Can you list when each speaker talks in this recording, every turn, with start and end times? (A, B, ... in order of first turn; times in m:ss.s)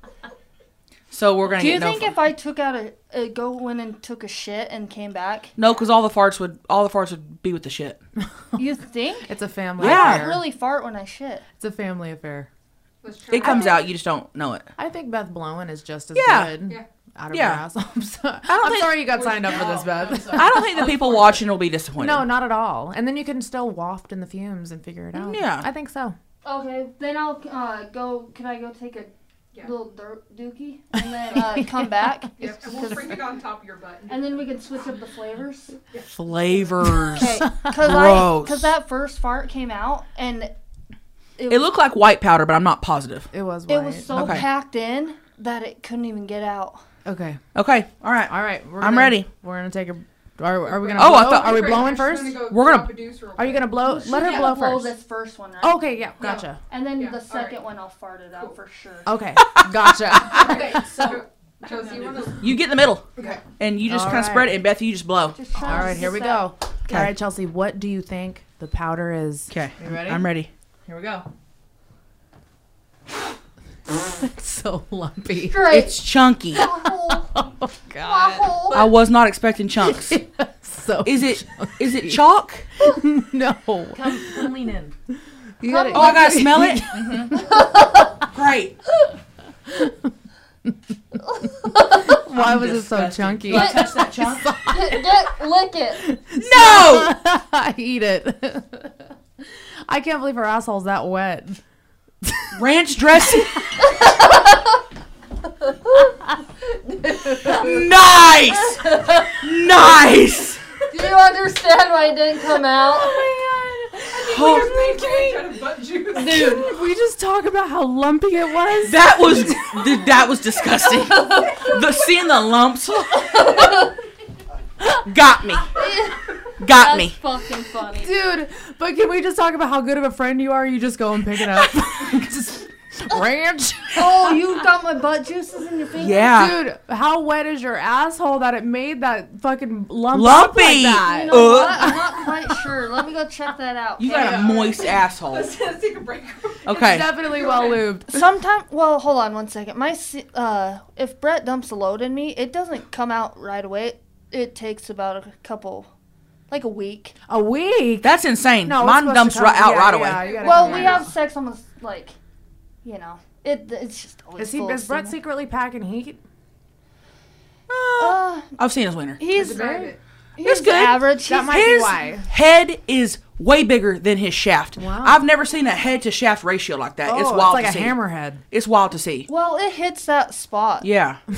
0:01.1-0:02.2 A
0:01.5-0:05.5 B
0:05.6-0:08.0 A
0:08.6-0:11.4 B
0:09.3-0:10.4 C
0:09.8-0:10.3 A
0:11.6-0:12.5 C
0:13.0-0:13.9 D
0:13.3-0:14.7 A
0:13.4-0:13.7 C
0:14.8-0:20.7 C
0:16.1-0:16.6 A
0:17.3-0:17.6 A
0:18.4-0:19.2 A
0:19.2-0:20.5 D
0:19.8-0:21.4 E
0:20.3-0:22.3 A
0:22.0-0:26.2 C
0:25.1-0:25.7 A
0:26.4-0:33.3 B
0:32.4-0:34.5 D
0:34.1-0:35.8 B
0:35.9-0:36.6 D
0:36.1-0:38.7 A
0:36.9-0:40.5 B
0:37.2-0:37.8 C
0:41.4-0:41.7 B
0:41.5-0:43.3 A
0:43.3-0:44.4 C
0:43.7-0:46.8 B
0:44.1-0:44.4 A
0:47.0-0:47.4 C
0:47.5-0:49.3 A
0:48.3-0:52.8 C
0:50.6-0:54.5 D
0:51.0-0:52.0 A
0:52.5-0:52.9 A
0:53.4-0:55.0 C
0:53.8-0:56.0 B
0:55.6-0:56.6 C
0:56.2-0:57.6 D
0:56.7-0:59.1 B
0:59.0-1:00.6 C
0:59.4-1:00.2 A
1:00.2-1:03.4 D
1:00.3-1:01.3 E
1:02.4-1:05.4 A
1:03.2-1:03.4 E
1:03.8-1:04.6 C
1:05.3-1:07.1 B
1:05.6-1:10.2 C
1:06.9-1:07.2 A
1:09.5-1:10.5 A
1:09.8-1:10.1 E
1:10.8-1:11.2 E
1:14.0-1:15.7 C
1:15.4-1:18.9 B
1:15.6-1:16.7 A
1:17.3-1:18.6 C
1:18.7-1:20.2 A
1:19.8-1:22.2 C
1:21.0-1:22.6 A
1:22.8-1:24.5 C
1:23.9-1:24.9 E
1:25.6-1:27.2 C
1:25.6-1:26.4 B
1:25.9-1:27.5 A
1:27.3-1:28.1 B
1:28.2-1:28.8 A
1:31.2-1:32.2 B
1:31.9-1:35.1 C
1:32.3-1:34.3 A
1:33.3-1:34.6 E
1:33.5-1:34.1 B
1:34.6-1:36.0 B
1:36.0-1:38.9 C
1:36.4-1:37.1 A
1:39.9-1:41.6 C
1:42.2-1:42.5 C
1:42.5-1:43.7 A
1:43.8-1:44.8 B
1:45.6-1:46.0 B
1:47.4-1:50.6 A
1:50.9-1:53.3 B
1:53.0-1:56.7 D
1:54.2-1:55.5 A
1:56.1-1:59.5 C
1:58.8-2:03.8 A
2:01.2-2:01.8 B
2:03.2-2:03.9 B
2:04.8-2:05.7 A
2:05.7-2:08.1 B
2:06.6-2:07.2 A
2:08.0-2:14.4 C
2:13.9-2:16.5 B
2:16.0-2:16.6 A
2:16.3-2:22.2 C
2:20.1-2:22.0 A
2:21.0-2:24.7 B
2:24.0-2:25.6 A
2:24.1-2:27.8 D
2:26.6-2:27.1 A
2:26.7-2:28.2 C
2:28.1-2:35.9 B
2:36.5-2:37.2 B
2:37.3-2:38.1 C
2:38.0-2:40.7 A
2:38.6-2:41.1 C
2:40.1-2:41.0 D
2:40.4-2:42.1 B
2:42.8-2:45.2 B
2:44.4-2:46.2 C
2:47.7-2:49.2 A
2:48.0-2:48.5 B
2:49.2-2:51.8 B
2:49.3-2:50.0 C
2:49.4-2:49.9 D
2:50.4-2:58.0 A
2:51.2-2:52.2 C
2:54.8-2:55.2 C
2:57.0-2:58.4 C
2:58.5-2:59.3 A
2:59.3-3:00.9 B
3:00.8-3:01.2 A